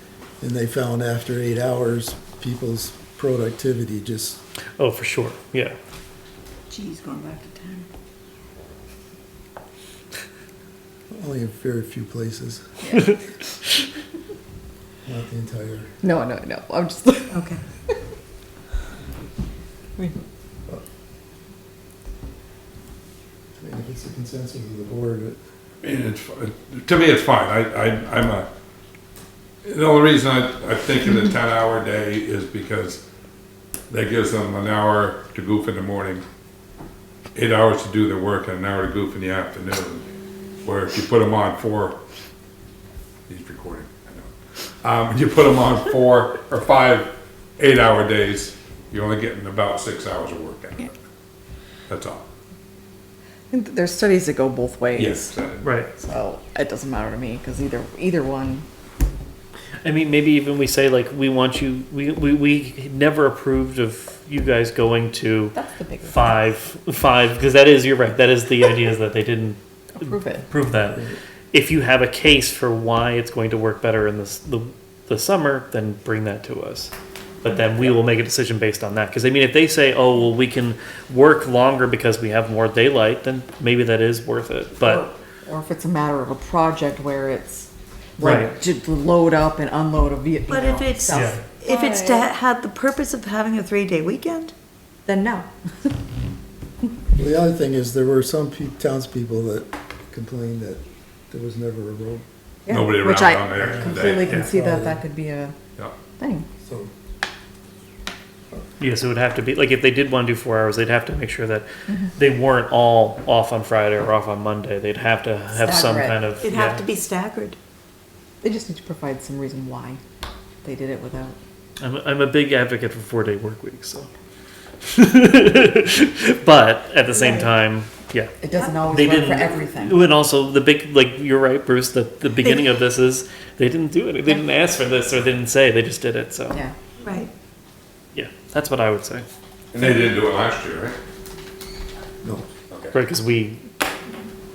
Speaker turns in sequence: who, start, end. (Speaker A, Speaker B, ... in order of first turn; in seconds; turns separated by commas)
Speaker A: 0.4-4.4, Speaker B: 4.8-5.8, Speaker C: 6.7-7.9, Speaker A: 11.1-12.7, Speaker C: 12.8-13.2, Speaker A: 15.1-15.9, Speaker C: 16.0-17.4, Speaker D: 17.3-17.6, Speaker A: 23.6-25.4, Speaker E: 25.8-28.5, Speaker E: 29.6-33.0, Speaker E: 33.9-36.2, Speaker E: 37.4-40.0, Speaker E: 40.6-42.0, Speaker E: 43.3-44.3, Speaker E: 44.8-51.0, Speaker E: 51.9-52.2, Speaker C: 53.5-55.3, Speaker E: 54.9-55.7, Speaker B: 55.6-55.9, Speaker C: 56.0-58.7, Speaker B: 59.8-65.5, Speaker C: 65.5-66.4, Speaker B: 66.0-85.0, Speaker C: 69.9-70.5, Speaker C: 77.5-77.9, Speaker C: 84.8-92.3, Speaker B: 88.2-88.6, Speaker D: 90.5-94.5, Speaker B: 91.1-91.4, Speaker C: 95.1-96.0, Speaker A: 97.2-102.2, Speaker C: 102.7-105.6, Speaker E: 102.7-104.4, Speaker A: 103.6-105.0, Speaker C: 106.2-106.5, Speaker A: 106.6-106.9, Speaker B: 108.8-116.9, Speaker C: 115.5-116.2, Speaker D: 116.4-117.6, Speaker C: 118.4-120.0, Speaker C: 120.6-121.4, Speaker B: 121.8-124.1, Speaker B: 124.8-128.3, Speaker C: 127.1-127.5, Speaker C: 128.4-130.1, Speaker B: 128.9-136.6, Speaker D: 137.0-137.3, Speaker B: 138.2-139.3, Speaker E: 139.7-141.0, Speaker E: 142.7-143.0, Speaker B: 142.9-143.6